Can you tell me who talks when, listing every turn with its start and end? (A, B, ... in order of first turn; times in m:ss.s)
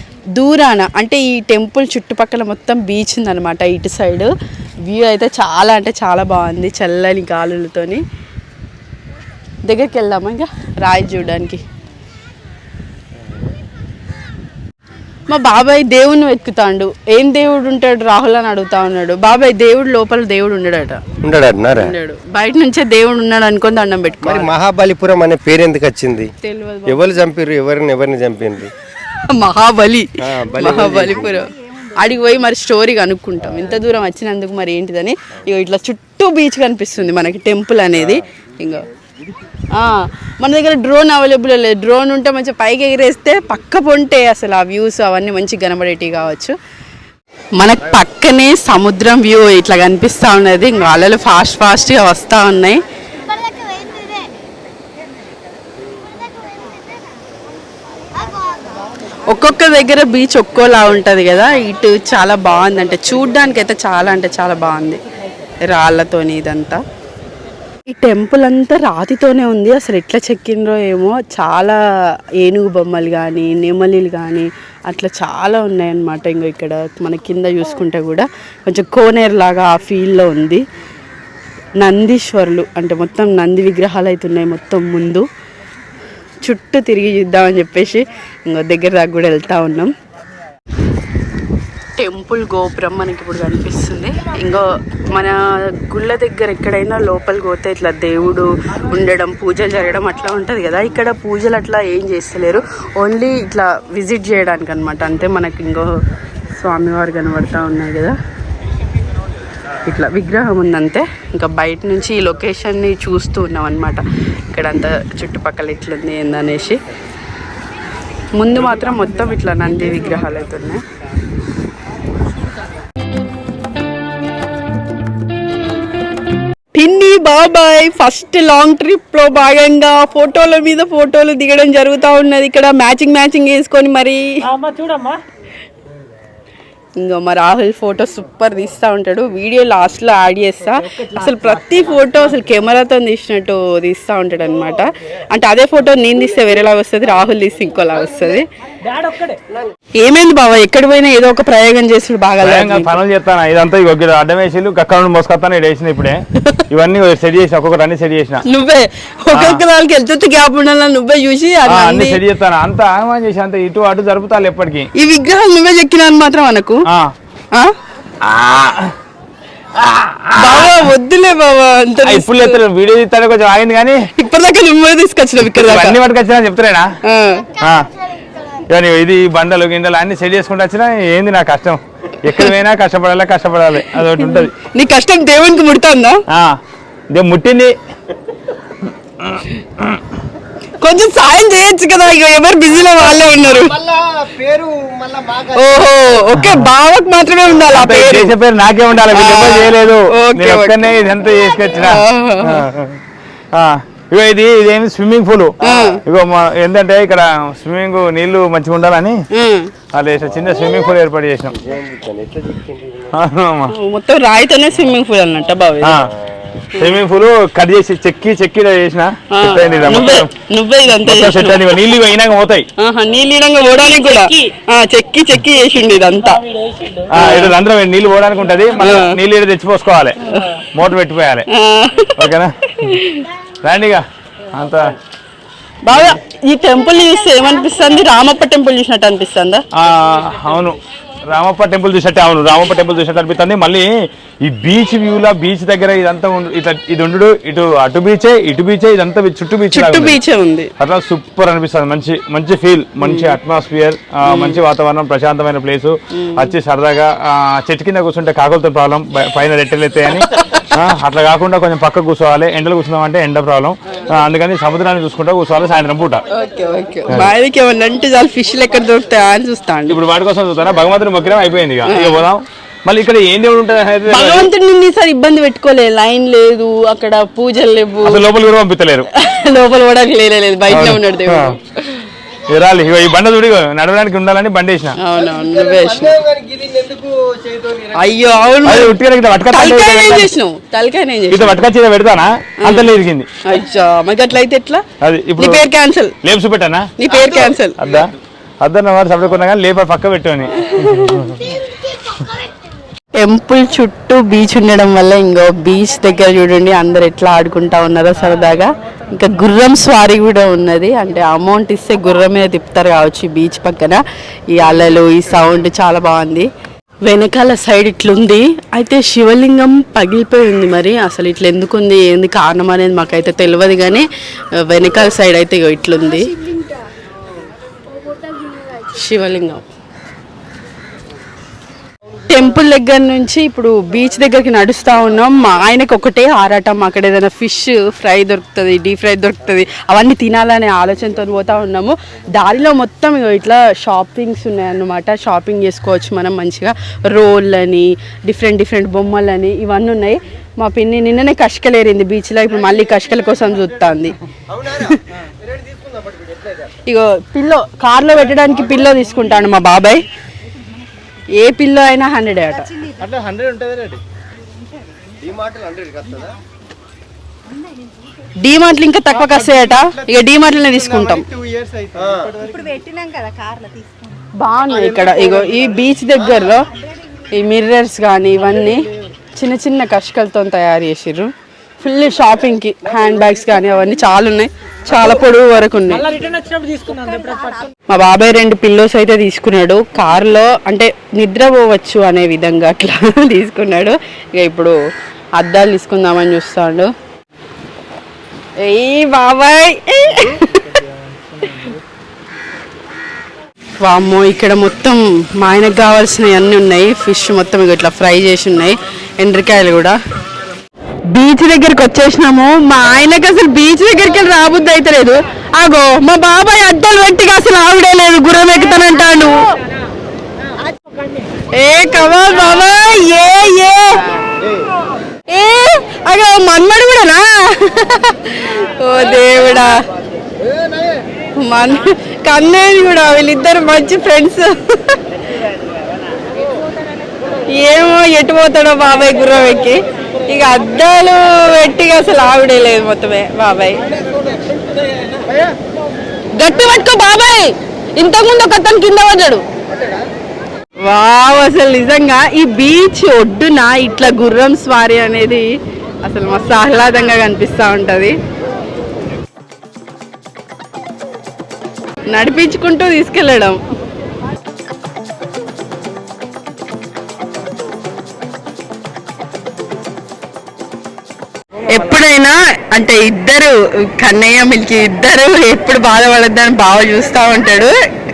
0:00.4-0:04.3 A
0:04.9-0:08.0 A
0:09.6-0:11.6 A
0:15.3-0:21.0 A
0:21.2-0:21.9 B
0:21.8-0:24.5 A
0:24.2-0:26.3 B
0:26.4-0:27.1 A
0:26.9-0:28.7 B
0:29.3-0:38.8 A
0:30.2-0:31.4 B
0:38.0-0:38.2 B
0:39.7-0:46.5 A
0:47.6-0:52.8 A
0:59.3-1:05.0 A
1:05.6-1:06.8 A
1:07.9-1:11.8 A
1:12.4-1:20.6 A
1:21.8-1:25.3 A
1:26.4-1:29.9 A
1:32.0-1:46.0 A
1:46.5-1:48.2 A
1:49.8-1:54.0 A
1:54.5-1:56.8 A
1:58.4-2:00.8 A
2:06.7-2:14.4 A
2:14.4-2:15.2 C
2:17.0-2:28.4 A
2:20.8-2:22.3 C
2:28.8-2:29.4 C
2:30.0-2:32.9 A
2:32.4-2:38.4 D
2:38.4-2:42.2 A
2:39.3-2:39.6 D
2:41.6-2:44.9 D
2:44.9-2:46.8 A
2:46.9-2:47.1 D
2:48.2-2:48.9 D
2:49.7-2:50.9 D
2:50.3-2:52.6 A
2:52.0-2:54.0 D
2:54.2-2:56.0 A
2:55.4-2:56.9 D
2:57.0-2:57.5 A
2:57.6-2:57.9 D
2:58.7-3:04.5 D
3:03.9-3:06.2 A
3:06.3-3:06.6 D
3:07.1-3:07.7 D
3:09.2-3:10.0 D
3:10.8-3:13.8 A
3:13.0-3:16.2 B
3:15.6-3:18.4 A
3:16.3-3:16.7 D
3:17.6-3:23.0 D
3:19.1-3:20.9 A
3:21.8-3:22.6 A
3:23.5-3:29.2 D
3:25.6-3:26.0 A
3:29.3-3:29.7 A
3:29.9-3:31.5 D
3:30.2-3:30.8 B
3:31.5-3:33.2 B
3:33.1-3:33.7 D
3:33.7-3:36.0 A
3:35.8-3:36.1 D
3:36.8-3:40.3 D
3:39.3-3:41.6 A
3:39.6-3:40.0 B
3:40.9-3:42.7 D
3:42.8-3:46.4 A
3:46.1-3:47.1 C
3:47.1-3:50.2 D
3:47.1-3:47.5 A
3:48.8-3:49.2 A
3:50.7-3:51.4 D
3:51.5-3:53.3 A
3:52.2-3:52.5 D
3:53.6-3:54.9 D
3:55.8-3:59.6 A
3:59.7-4:03.9 D
4:04.4-4:10.2 D
4:09.7-4:10.7 A
4:10.8-4:26.2 D
4:13.0-4:13.4 A
4:14.2-4:14.6 A
4:16.1-4:16.5 A
4:26.3-4:30.0 A
4:29.9-4:34.5 D
4:31.9-4:32.2 A
4:34.1-4:38.2 A
4:38.0-4:39.1 D
4:39.1-4:41.8 A
4:40.7-4:41.6 D
4:42.5-4:45.0 D
4:45.0-4:46.2 A
4:45.1-4:48.6 B
4:48.0-4:49.0 A
4:48.6-4:50.3 D
4:49.5-4:51.6 A
4:51.3-4:53.3 D
4:52.6-4:52.9 A
4:53.4-4:54.8 A
4:55.0-4:55.6 D
4:55.4-4:56.1 A
4:56.2-4:56.9 D
4:57.0-4:57.8 A
4:57.1-4:58.0 B
4:57.8-5:01.4 D
5:00.6-5:01.4 A
5:03.1-5:16.5 A
5:17.0-5:24.0 A
5:24.6-5:26.4 A
5:28.7-5:29.6 A
5:32.3-5:54.2 A
5:52.6-5:53.6 E
5:54.5-5:56.7 B
5:56.8-6:00.0 A
6:01.4-6:02.7 A
6:02.5-6:03.1 F
6:03.0-6:04.0 E
6:05.2-6:06.3 B
6:08.4-6:11.2 A
6:09.1-6:12.8 E
6:12.0-6:12.3 B
6:12.4-6:14.2 F
6:14.4-6:16.6 A
6:14.7-6:16.2 E
6:16.1-6:16.4 B
6:17.3-6:21.3 A
6:21.8-6:26.0 A
6:25.9-6:27.7 C
6:27.9-6:34.8 A
6:35.4-6:36.9 A
6:38.6-6:40.6 A
6:40.5-6:41.8 C
6:43.8-6:50.0 A
6:51.1-6:59.5 A
7:01.6-7:04.1 A
7:04.4-7:04.6 B
7:05.3-7:09.8 A
7:11.4-7:15.0 A
7:17.5-7:24.0 A
7:26.4-7:29.4 A
7:30.8-7:35.5 A
7:36.0-7:38.2 A
7:42.1-7:43.6 A
7:51.7-7:57.7 A